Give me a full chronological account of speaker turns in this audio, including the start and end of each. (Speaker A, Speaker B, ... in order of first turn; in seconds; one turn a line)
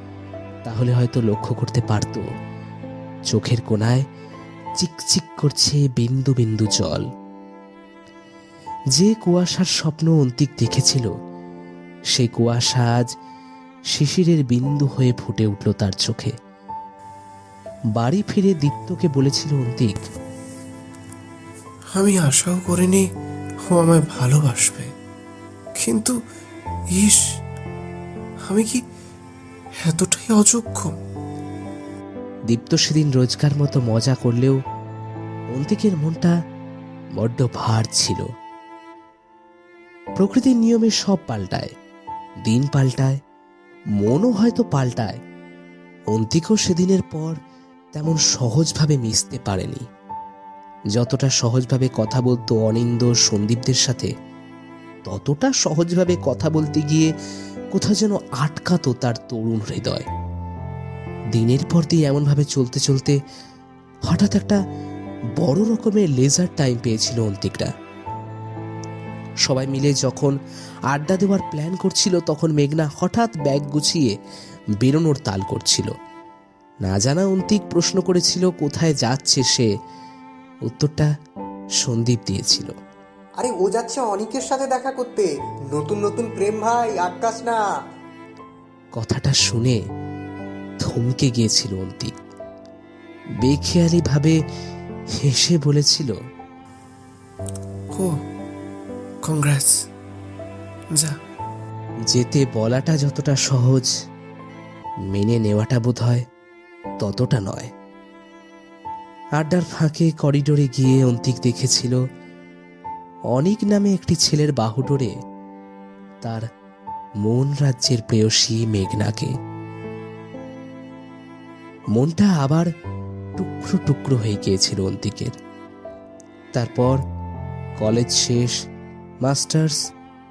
Speaker A: 0.7-2.2
Speaker A: 3.3-4.1
Speaker A: 4.8-7.0
Speaker A: 8.9-11.1
Speaker A: 12.1-13.1
Speaker A: 13.9-16.3
Speaker A: 18.0-20.0
Speaker B: 21.9-23.0
Speaker B: 23.7-24.9
Speaker B: 25.8-26.1
Speaker B: 27.0-27.2
Speaker B: 28.5-28.8
Speaker B: 29.8-30.9
Speaker A: 32.5-34.6
Speaker A: 35.6-36.3
Speaker A: 37.2-38.3
Speaker A: 40.2-41.7
Speaker A: 42.5-43.2
Speaker A: 44.0-45.2
Speaker A: 46.1-47.4
Speaker A: 48.0-49.9
Speaker A: 51.0-54.1
Speaker A: 55.1-57.1
Speaker A: 57.8-60.1
Speaker A: 61.4-63.2
Speaker A: 64.1-64.6
Speaker A: 65.4-67.7
Speaker A: 69.5-70.3
Speaker A: 70.9-74.1
Speaker A: 74.8-75.9
Speaker A: 76.8-79.7
Speaker A: 80.7-81.1
Speaker A: 81.8-82.7
Speaker C: 83.4-87.6
Speaker A: 89.0-89.8
Speaker A: 90.8-92.1
Speaker A: 93.4-94.4
Speaker A: 95.2-96.1
Speaker B: 99.2-99.8
Speaker A: 102.1-103.9
Speaker A: 105.1-106.2
Speaker A: 107.0-107.7
Speaker A: 109.4-112.0
Speaker A: 113.3-115.1
Speaker A: 117.2-119.3
Speaker A: 122.0-122.7
Speaker A: 123.4-125.3
Speaker A: 126.6-127.0
Speaker A: 127.8-128.6
Speaker A: 129.2-129.8